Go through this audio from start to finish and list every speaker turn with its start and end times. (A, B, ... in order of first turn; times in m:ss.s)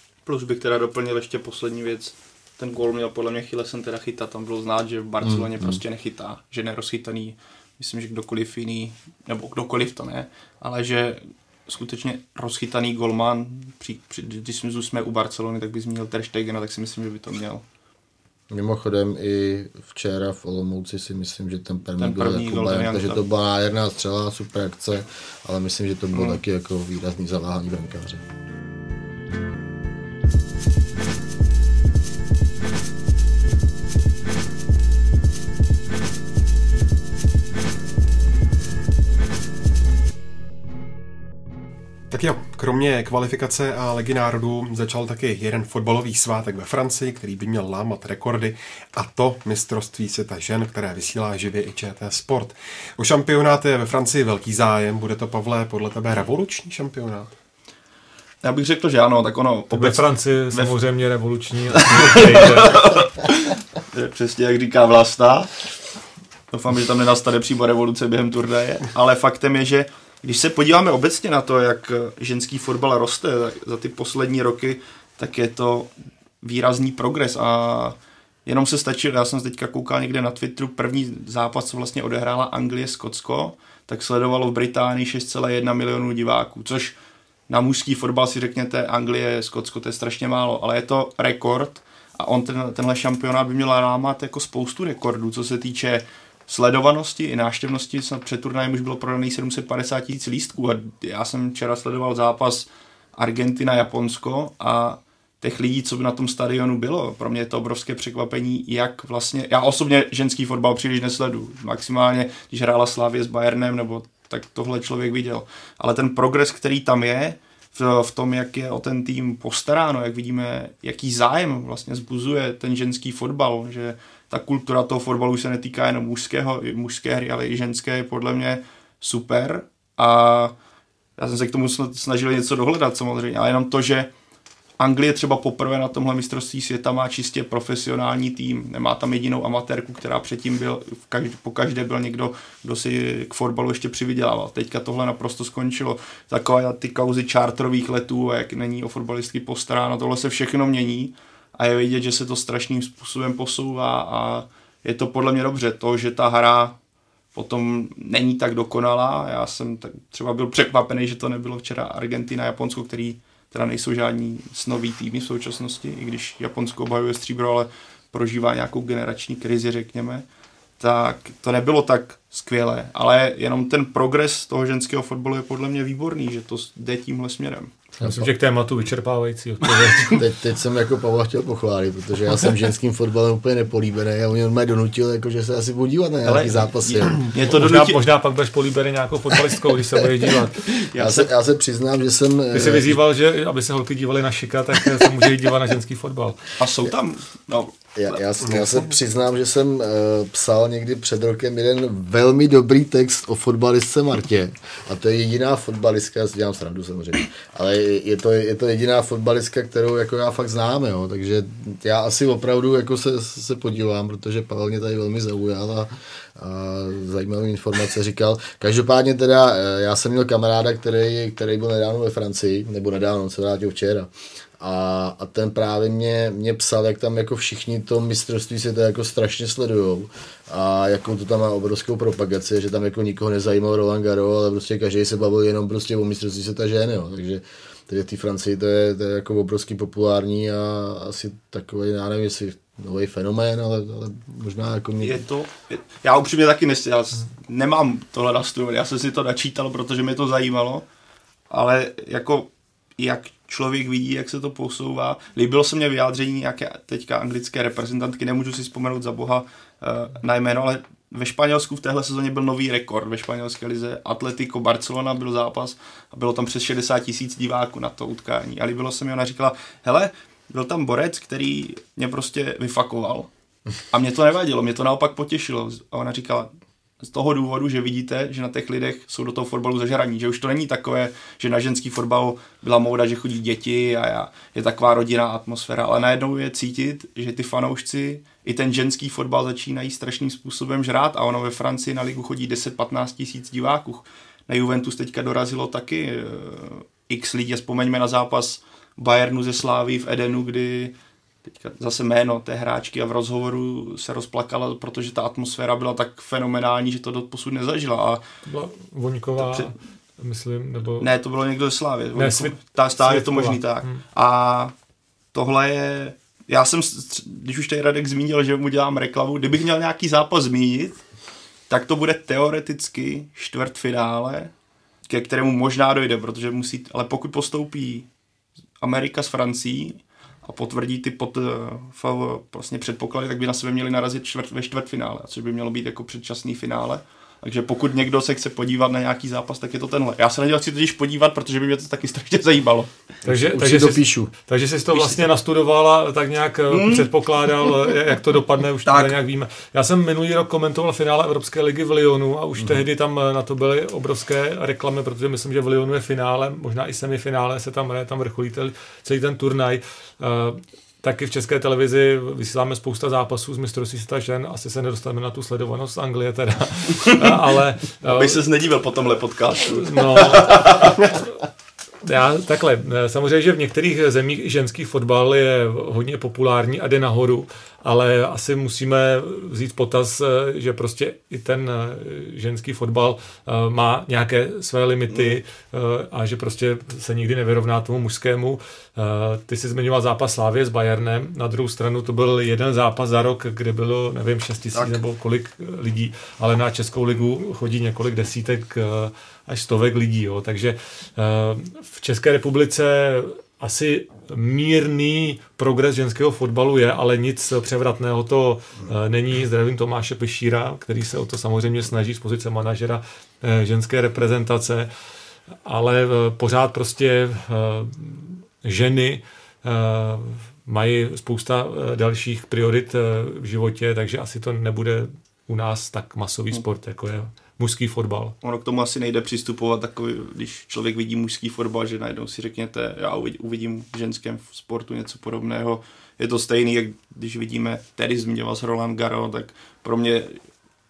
0:00.2-0:17.6 A
0:05.2-0:05.8 B
0:18.5-0:28.2 B
0:22.0-0:23.3 A
0:42.1-0:57.3 C
0:58.4-1:00.8 A
0:59.7-1:02.8 D
1:01.7-1:05.7 A
1:06.5-1:15.9 A
1:16.4-1:26.9 A
1:27.5-2:10.5 A
2:11.2-2:14.1 A
2:14.8-2:36.8 A
2:37.3-2:50.2 A
2:50.8-2:57.8 A
2:58.0-3:00.2 D
2:58.0-2:58.3 B
2:59.8-3:00.2 A
3:00.1-3:07.2 B
3:06.2-3:08.0 A
3:07.4-3:10.6 D
3:10.6-3:11.3 A
3:10.9-3:13.0 B
3:12.5-3:16.4 D
3:16.6-3:18.2 A
3:18.0-4:05.2 B
3:18.4-3:18.9 C
4:05.0-4:10.8 A
4:11.5-4:33.3 A
4:33.9-4:36.5 A
4:37.0-5:00.9 A
5:01.4-5:08.2 A
5:08.4-5:11.1 D
5:09.4-5:09.7 A
5:11.0-5:14.7 A
5:12.1-5:14.0 D
5:15.3-5:21.0 A
5:21.7-5:24.5 A
5:25.1-5:28.1 A
5:28.8-5:42.9 A
5:43.2-5:44.3 B
5:43.2-6:08.4 D
5:44.9-5:45.2 A
5:46.7-5:47.1 A
5:47.6-5:47.9 A
5:48.8-5:49.1 A
6:07.0-6:07.5 A
6:08.0-6:11.2 A
6:09.7-6:11.2 D
6:12.0-6:54.9 D
6:25.1-6:25.4 A
6:34.7-6:35.0 A
6:55.6-7:08.3 D
7:08.4-7:20.4 A